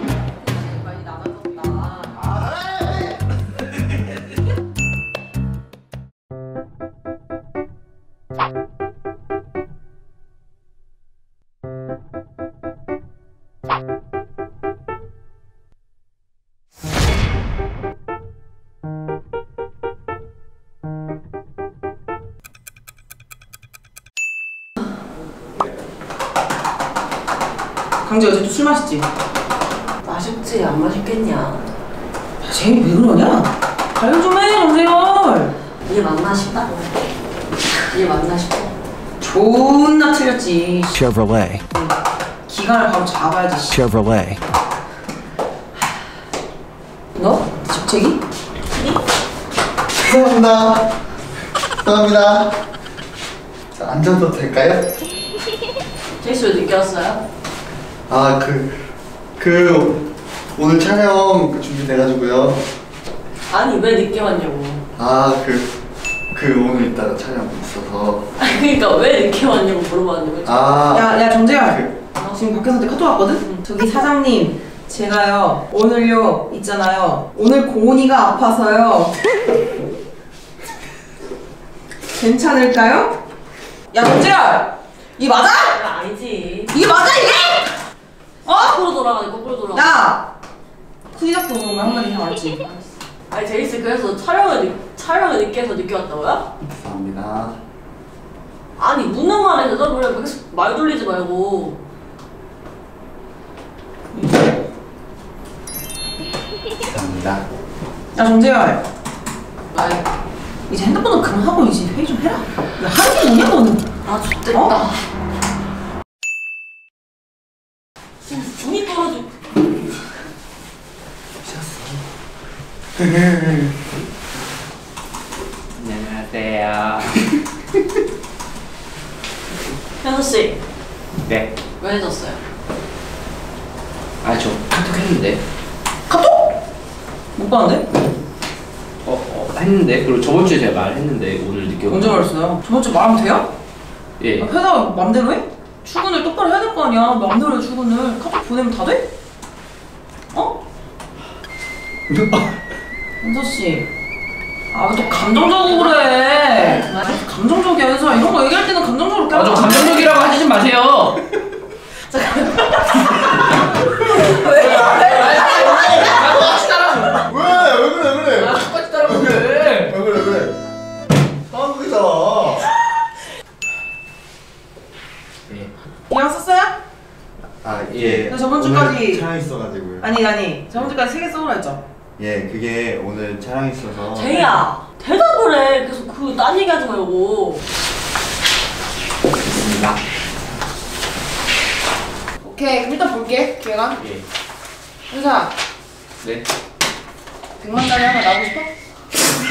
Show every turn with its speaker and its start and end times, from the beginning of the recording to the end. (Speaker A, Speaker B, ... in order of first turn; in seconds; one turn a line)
Speaker A: 0.4-2.1
Speaker B: 2.1-3.2
Speaker C: 28.0-29.1
Speaker A: 30.0-31.7
Speaker C: 32.4-35.5
Speaker A: 35.8-36.9
Speaker A: 37.9-38.7
Speaker C: 39.2-42.0
Speaker C: 42.5-44.2
Speaker C: 47.1-48.2
Speaker A: 48.7-49.0
Speaker B: 50.0-50.9
Speaker B: 51.8-52.6
Speaker B: 53.7-54.9
Speaker A: 56.2-57.2
Speaker B: 58.1-58.8
Speaker B: 59.4-62.6
Speaker A: 63.5-64.8
Speaker B: 65.0-65.7
Speaker B: 66.3-68.2
Speaker A: 68.4-70.9
Speaker B: 70.4-71.9
Speaker C: 70.9-79.1
Speaker C: 82.1-83.2
Speaker C: 83.9-85.8
Speaker A: 85.7-86.7
Speaker C: 86.7-87.8
Speaker C: 88.5-88.8
Speaker A: 88.5-90.0
Speaker C: 89.7-90.3
Speaker C: 91.1-92.8
Speaker A: 93.3-96.4
Speaker B: 96.7-97.6
Speaker A: 98.8-101.8
Speaker C: 104.1-104.6
Speaker B: 106.8-107.4
Speaker C: 108.1-108.8
Speaker A: 109.7-110.0
Speaker C: 110.7-113.9
Speaker A: 114.0-115.0
Speaker C: 114.5-114.8
Speaker A: 118.2-119.3
Speaker B: 121.4-122.0
Speaker B: 123.0-123.7
Speaker D: 125.8-127.3
Speaker A: 130.0-130.6
Speaker D: 131.2-131.5
Speaker A: 131.8-132.4
Speaker D: 134.2-135.4
Speaker C: 136.1-136.5
Speaker C: 137.3-137.8
Speaker D: 139.0-142.2
Speaker C: 141.9-143.5
Speaker D: 144.2-144.5
Speaker C: 144.4-149.1
Speaker C: 153.2-153.9
Speaker C: 154.7-160.2
Speaker D: 159.3-161.2
Speaker A: 162.1-163.3
Speaker A: 164.1-165.4
Speaker D: 164.2-167.4
Speaker B: 165.6-170.6
Speaker D: 168.4-169.9
Speaker B: 171.5-172.7
Speaker C: 176.1-176.7
Speaker B: 177.6-180.1
Speaker D: 177.9-178.3
Speaker C: 178.3-179.3
Speaker C: 180.0-181.8
Speaker B: 182.2-184.4
Speaker A: 184.1-187.6
Speaker C: 184.3-184.6
Speaker D: 189.4-190.0
Speaker C: 192.4-194.0
Speaker D: 194.0-194.2
Speaker C: 195.1-195.5
Speaker D: 196.2-196.5
Speaker C: 197.6-198.7